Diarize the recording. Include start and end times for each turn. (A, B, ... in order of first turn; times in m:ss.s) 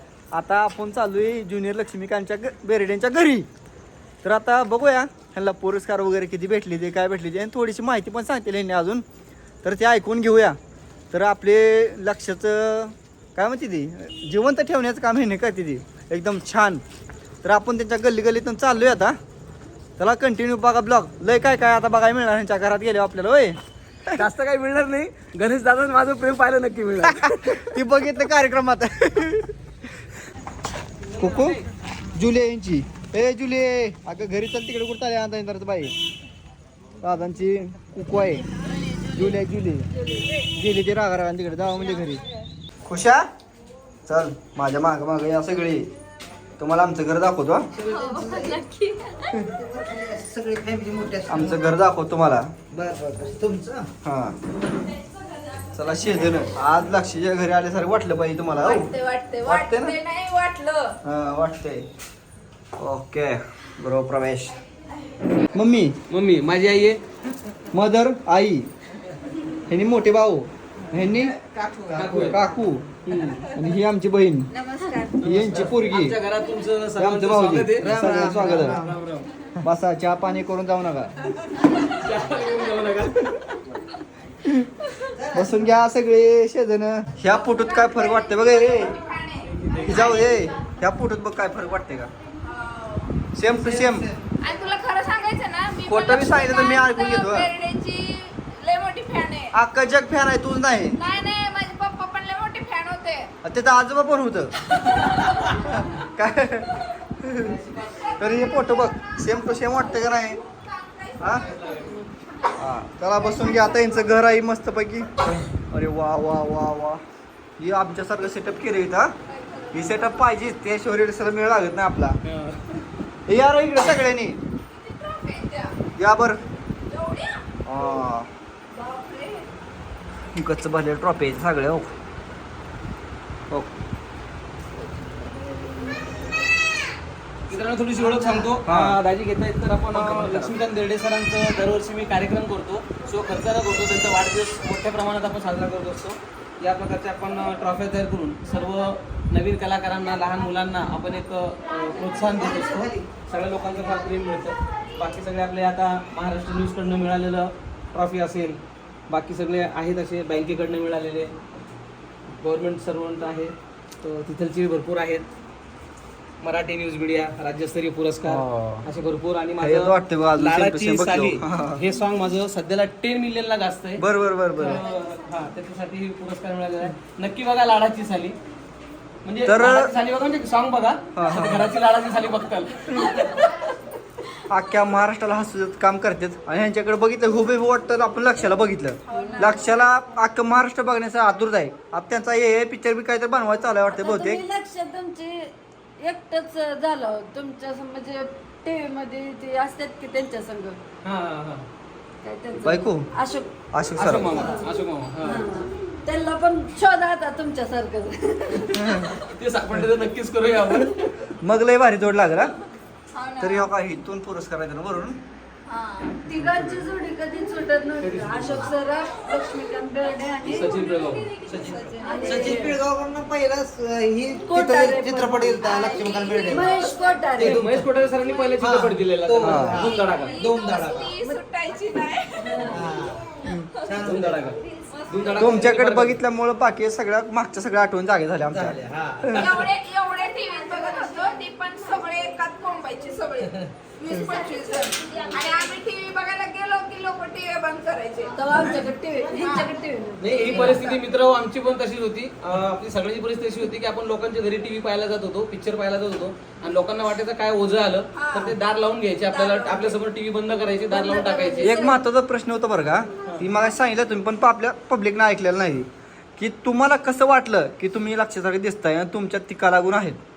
0:00.3-0:03.5 A
0:04.2-0:09.0 A
0:09.6-0:10.6 A
0:11.1-0:16.8 A
0:17.4-0:19.2 A
0:20.0-0:24.2 A
0:24.1-0:27.8 B
0:27.0-0:29.5 A
0:31.1-0:31.6 B
0:31.2-0:31.6 A
0:32.2-0:35.9 A
0:37.0-0:38.4 A
0:39.1-0:39.9 A
0:40.1-0:40.4 C
0:40.6-0:42.2 A
0:42.9-0:43.3 A
0:44.1-0:45.9 A
0:46.6-0:47.6 A
0:47.8-0:48.6 D
0:47.9-0:49.5 C
0:49.4-0:51.7 D
0:51.3-0:52.5 A
0:52.7-0:53.9 D
0:54.0-0:54.4 A
0:55.7-0:58.9 A
0:58.6-1:01.0 C
0:59.4-1:00.0 A
1:01.0-1:01.8 A
1:02.8-1:04.6 A
1:05.5-1:06.0 A
1:06.1-1:07.0 B
1:07.7-1:08.7 A
1:09.7-1:11.3 A
1:11.2-1:12.3 D
1:11.9-1:12.4 B
1:11.9-1:12.8 A
1:13.0-1:13.5 B
1:13.5-1:14.5 A
1:14.5-1:15.2 C
1:15.2-1:18.0 B
1:15.2-1:16.2 A
1:17.0-1:18.8 A
1:17.8-1:19.0 D
1:18.7-1:19.3 B
1:19.6-1:21.1 A
1:21.5-1:23.6 B
1:25.1-1:25.7 D
1:25.3-1:29.0 A
1:27.3-1:30.4 C
1:29.4-1:30.1 B
1:29.8-1:32.1 A
1:32.4-1:33.3 C
1:33.3-1:34.1 A
1:33.4-1:34.2 D
1:34.4-1:39.5 C
1:35.9-1:37.5 A
1:39.5-1:41.0 A
1:40.9-1:43.3 C
1:43.4-1:44.5 A
1:44.7-1:46.0 C
1:45.2-1:45.5 B
1:45.6-1:47.6 A
1:47.8-1:52.6 C
1:48.2-1:50.4 A
1:51.2-1:51.5 A
1:51.4-1:52.0 B
1:52.6-1:57.0 A
1:53.1-1:54.2 C
1:57.6-1:59.1 A
1:59.3-2:00.4 C
1:59.7-2:02.2 A
2:02.2-2:02.9 B
2:03.3-2:04.4 A
2:04.6-2:05.8 C
2:06.0-2:06.4 A
2:06.9-2:07.4 C
2:07.7-2:08.3 A
2:08.7-2:09.5 C
2:10.3-2:11.9 A
2:15.0-2:16.2 C
2:17.5-2:41.3 B
2:18.5-2:19.0 A
2:19.9-2:20.6 A
2:32.3-2:33.0 D
2:42.3-2:45.2 B
2:46.4-2:54.0 B
2:48.2-2:48.9 A
2:49.6-2:51.8 A
2:54.0-2:54.8 A
2:54.6-2:58.4 B
2:59.2-3:03.6 B
2:59.4-2:59.9 A
3:01.2-3:01.7 A
3:04.5-3:14.4 A
3:09.1-3:10.0 C
3:09.1-3:09.6 E
3:13.9-3:20.8 E
3:21.0-3:21.7 B
3:22.2-3:23.5 E
3:22.6-3:23.1 A
3:23.7-3:24.4 A
3:24.0-3:25.5 B
3:24.3-3:24.7 E
3:25.2-3:29.2 E
3:28.8-3:29.1 A
3:29.1-3:31.1 B
3:31.4-3:32.5 A
3:33.1-3:33.7 C
3:33.4-3:35.2 A
3:35.7-3:36.2 C
3:36.2-3:40.8 E
3:36.3-3:36.9 A
3:38.0-3:38.7 B
3:39.2-3:39.7 C
3:40.4-3:42.8 C
3:40.4-3:41.3 B
3:41.4-3:46.8 D
3:41.5-3:42.8 E
3:44.4-3:45.7 E
3:45.6-3:47.3 C
3:46.4-3:47.6 E
3:47.3-3:50.4 B
3:47.4-3:47.8 D
3:48.6-3:51.2 D
3:49.4-3:49.8 A
3:49.7-3:52.9 C
3:51.1-3:51.4 E
3:52.5-3:52.8 E
3:52.7-3:53.2 D
3:53.8-3:54.2 D
3:54.0-3:56.2 B
3:54.9-3:55.7 C
3:55.4-3:59.6 A
3:58.4-3:59.6 D
3:59.3-4:08.4 C
4:08.3-4:10.9 E
4:09.4-4:09.8 C
4:10.2-4:21.9 B
4:10.4-4:11.0 C
4:18.2-4:18.6 C
4:19.3-4:20.0 C
4:20.9-4:22.0 E
4:21.6-4:30.2 A